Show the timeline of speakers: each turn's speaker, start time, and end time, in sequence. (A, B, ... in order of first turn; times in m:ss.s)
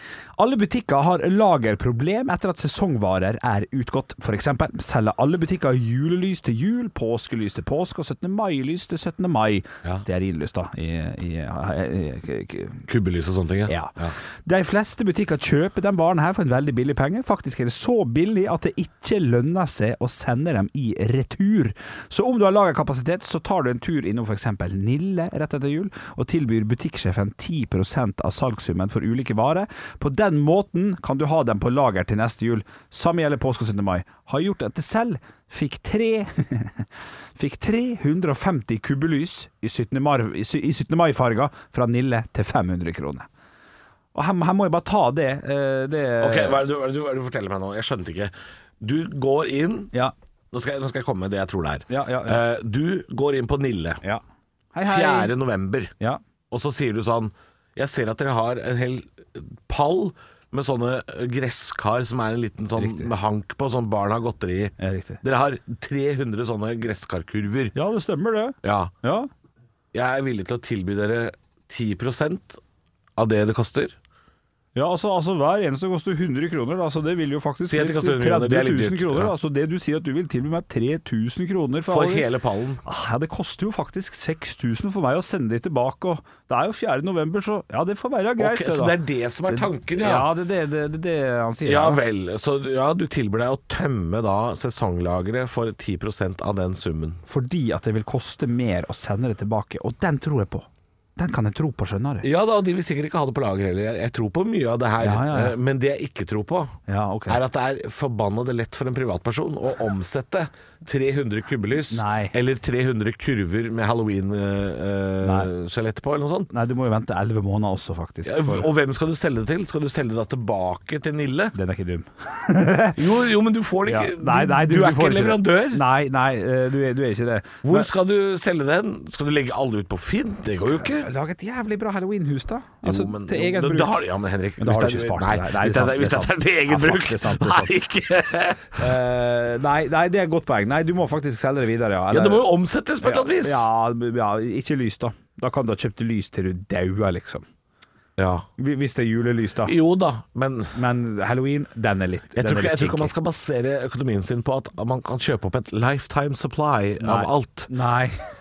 0:00.4-0:12.9 A
0:12.9-0:14.1 B
0:13.7-0:43.3 A
0:44.1-0:46.6 A
0:46.2-0:49.9 B
0:50.5-0:54.0 B
0:51.9-0:52.4 A
0:54.7-0:55.4 A
0:54.8-0:55.9 B
0:56.5-1:07.8 B
1:02.8-1:03.1 A
1:04.8-1:05.2 A
1:07.8-1:09.3 A
1:08.6-1:08.9 B
1:09.9-1:12.6 B
1:13.2-1:14.0 B
1:14.8-1:22.3 A
1:17.7-1:19.3 B
1:21.9-1:22.8 B
1:22.8-1:29.0 A
1:28.4-1:30.3 B
1:29.5-1:32.0 A
1:31.6-1:37.2 B
1:37.3-1:42.3 A
1:42.2-1:46.8 B
1:45.0-1:45.6 A
1:46.9-1:47.4 A
1:47.3-1:56.5 B
1:51.9-1:52.3 A
1:55.2-1:55.5 A
1:56.5-1:58.7 A
1:58.2-2:01.6 B
2:01.5-2:03.0 A
2:03.0-2:05.8 B
2:03.9-2:07.9 A
2:07.6-2:11.1 B
2:10.5-2:14.0 A
2:12.8-2:19.0 B
2:14.6-2:17.7 A
2:18.8-2:22.5 A
2:22.1-2:23.7 B
2:23.0-2:27.4 A
2:28.2-2:28.5 B
2:28.6-2:29.8 A
2:29.6-2:30.8 B
2:30.8-2:33.1 A
2:32.4-2:37.7 B
2:37.0-2:38.2 A